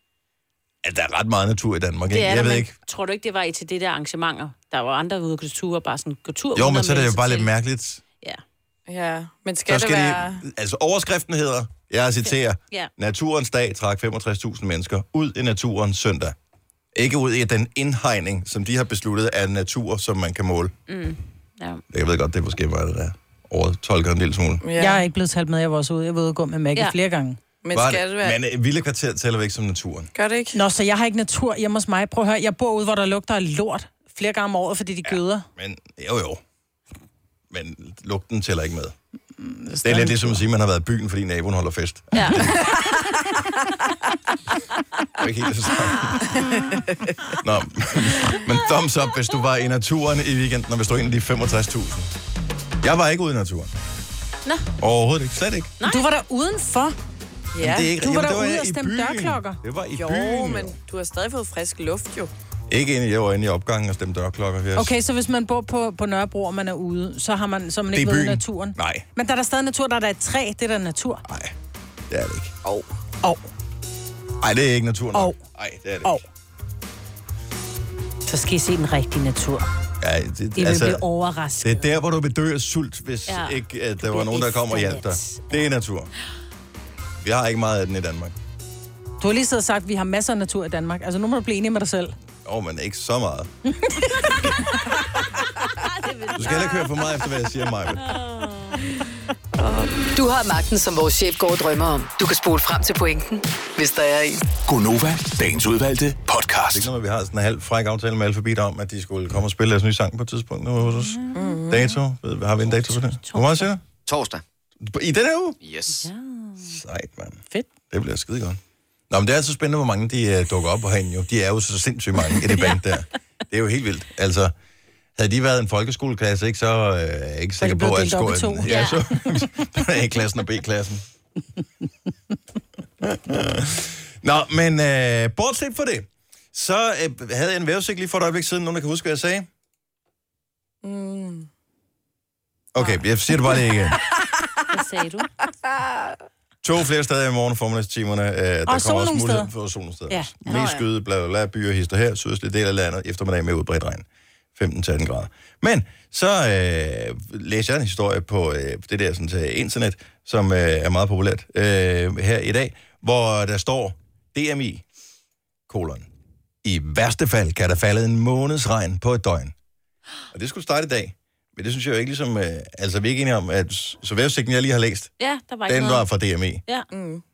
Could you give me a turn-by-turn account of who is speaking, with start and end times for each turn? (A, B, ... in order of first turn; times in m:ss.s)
0:00.8-0:02.7 A
0:02.1-0:07.5 B
0:06.5-0:08.0 A
0:08.9-0:10.4 C
0:09.6-0:16.4 A
0:12.2-0:12.9 B
0:17.0-0:20.7 A
0:20.9-0:21.8 B
0:21.9-0:24.6 A
0:24.6-0:25.0 C
0:24.8-0:27.4 D
0:27.6-0:28.4 C
0:27.7-0:30.1 A
0:30.1-0:30.6 C
0:30.5-0:35.5 D
0:35.0-0:36.4 A
0:37.5-0:39.0 A
0:39.4-0:40.4 D
0:39.8-0:42.8 A
0:42.1-0:43.0 B
0:45.2-0:46.4 A
0:47.4-0:52.1 A
0:52.8-0:53.7 A
0:54.8-0:55.7 A
0:55.8-0:56.0 B
0:55.8-0:57.0 D
0:57.6-0:57.9 C
0:57.6-1:00.8 A
0:57.9-0:59.6 D
1:00.0-1:02.3 C
1:02.7-1:04.9 A
1:04.8-1:11.2 D
1:07.9-1:09.0 A
1:11.2-1:11.5 A
1:12.1-1:12.5 A
1:14.4-1:16.2 A
1:15.1-1:15.4 D
1:18.3-1:19.7 B
1:20.0-1:21.0 A
1:20.6-1:21.9 B
1:21.6-1:26.1 A
1:23.3-1:25.6 B
1:27.2-1:28.4 A
1:29.2-1:32.1 D
1:32.4-1:33.5 A
1:35.7-1:37.2 B
1:36.3-1:38.1 A
1:37.9-1:39.0 B
1:39.6-1:39.9 C
1:40.1-1:44.4 E
1:44.6-1:46.9 F
1:46.7-1:53.8 A
1:51.4-1:51.9 C
1:52.6-1:53.7 B
1:54.8-1:55.6 A
1:55.8-1:56.7 B
1:56.6-2:04.5 A
2:02.5-2:02.8 B
2:05.2-2:11.0 A
2:07.6-2:08.9 D
2:08.7-2:09.0 B
2:13.0-2:19.5 A
2:20.8-2:21.5 C
2:22.7-2:24.0 A
2:24.7-2:25.3 B
2:25.8-2:26.1 C
2:26.6-2:44.8 A
2:28.7-2:29.5 D
2:30.5-2:30.8 C
2:45.7-2:46.1 A
2:46.6-2:49.5 A
2:50.3-2:55.1 A
2:55.2-2:56.0 B
2:55.7-2:56.6 A
2:56.9-2:57.2 C